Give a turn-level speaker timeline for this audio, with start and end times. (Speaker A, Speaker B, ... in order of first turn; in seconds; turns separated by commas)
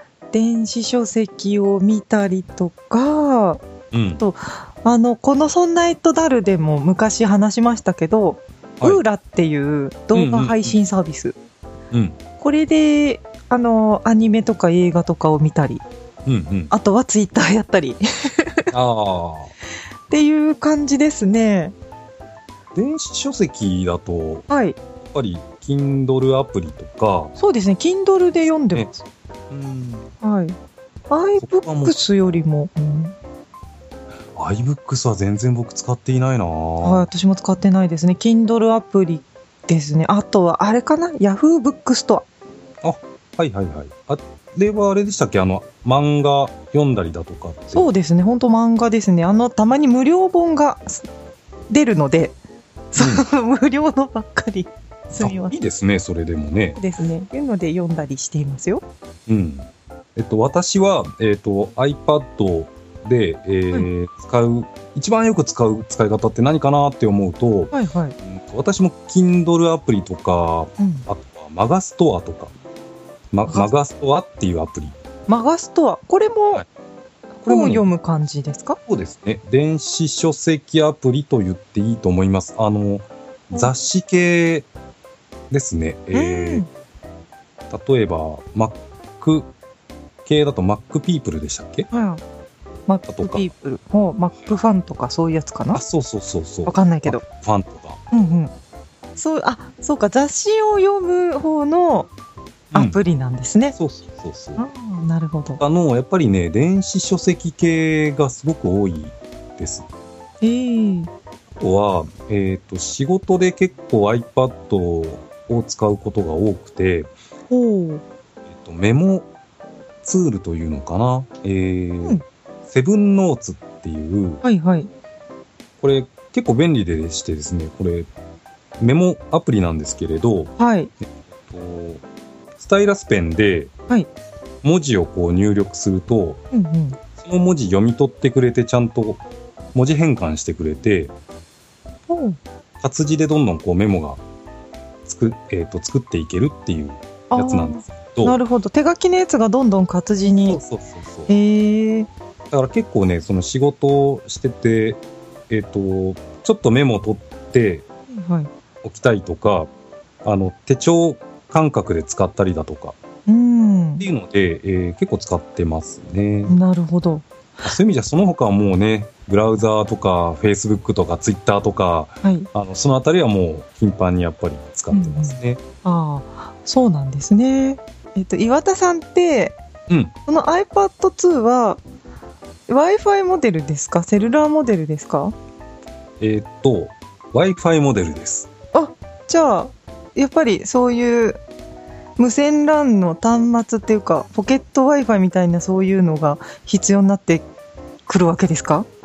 Speaker A: 0.3-3.6, Speaker B: 3.9-4.2, Speaker A: 4.2-11.4, Speaker B: 10.1-10.8, Speaker B: 11.9-12.2, Speaker A: 12.4-15.8, Speaker B: 16.3-16.7, Speaker A: 16.7-18.7, Speaker B: 18.7-19.5, Speaker A: 20.1-21.8, Speaker B: 22.8-24.5, Speaker A: 24.5-24.8, Speaker B: 25.0-27.3, Speaker A: 27.4-29.0, Speaker B: 29.5-30.1, Speaker A: 30.2-30.6, Speaker A: 31.1-33.1, Speaker B: 31.4-32.0, Speaker B: 34.4-37.1, Speaker A: 36.8-42.3, Speaker B: 42.8-47.9, Speaker A: 47.7-51.1, Speaker A: 51.7-52.4, Speaker A: 52.9-55.6, Speaker B: 53.0-53.2, Speaker B: 55.2-56.8, Speaker A: 56.8-58.8, Speaker B: 59.3-72.5, Speaker A: 67.7-68.2, Speaker A: 70.8-71.1, Speaker B: 73.3-75.0, Speaker A: 75.3-76.6, Speaker A: 77.4-78.8, Speaker B: 77.5-77.9, Speaker B: 78.9-84.7, Speaker B: 85.5-86.7, Speaker A: 86.1-86.7, Speaker B: 87.7-89.5, Speaker B: 90.2-91.9, Speaker A: 91.9-92.2, Speaker A: 92.9-95.8, Speaker B: 93.1-93.5, Speaker B: 95.7-98.0, Speaker A: 96.7-97.2, Speaker A: 98.1-98.5, Speaker A: 99.2-102.1, Speaker B: 102.7-103.0, Speaker A: 102.7-103.8, Speaker B: 103.8-104.7, Speaker A: 104.6-105.6, Speaker B: 105.6-109.9, Speaker A: 110.4-111.1, Speaker B: 111.5-117.1, Speaker A: 117.5-118.0, Speaker B: 118.5-119.3, Speaker B: 120.0-124.4, Speaker A: 124.4-124.9, Speaker B: 125.8-128.1, Speaker B: 128.8-132.0, Speaker A: 130.6-130.9, Speaker B: 132.6-133.7, Speaker B: 134.6-136.4, Speaker A: 136.5-137.0, Speaker B: 137.2-139.2, Speaker B: 139.7-141.1, Speaker A: 142.1-142.4, Speaker B: 142.8-144.2, Speaker B: 145.1-148.4, Speaker A: 147.3-150.6, Speaker B: 150.5-151.3, Speaker A: 151.3-152.1, Speaker B: 152.5-157.8, Speaker A: 158.1-158.5, Speaker B: 158.8-159.7, Speaker B: 160.2-163.0, Speaker A: 163.3-164.1, Speaker B: 164.0-166.6, Speaker A: 166.5-167.7, Speaker B: 167.6-175.6, Speaker A: 172.2-172.5, Speaker A: 174.9-179.6, Speaker B: 179.9-180.1, Speaker A: 180.3-181.8, Speaker A: 182.7-185.3, Speaker B: 186.2-188.5, Speaker A: 188.7-191.4, Speaker A: 192.2-197.5, Speaker A: 198.1-198.9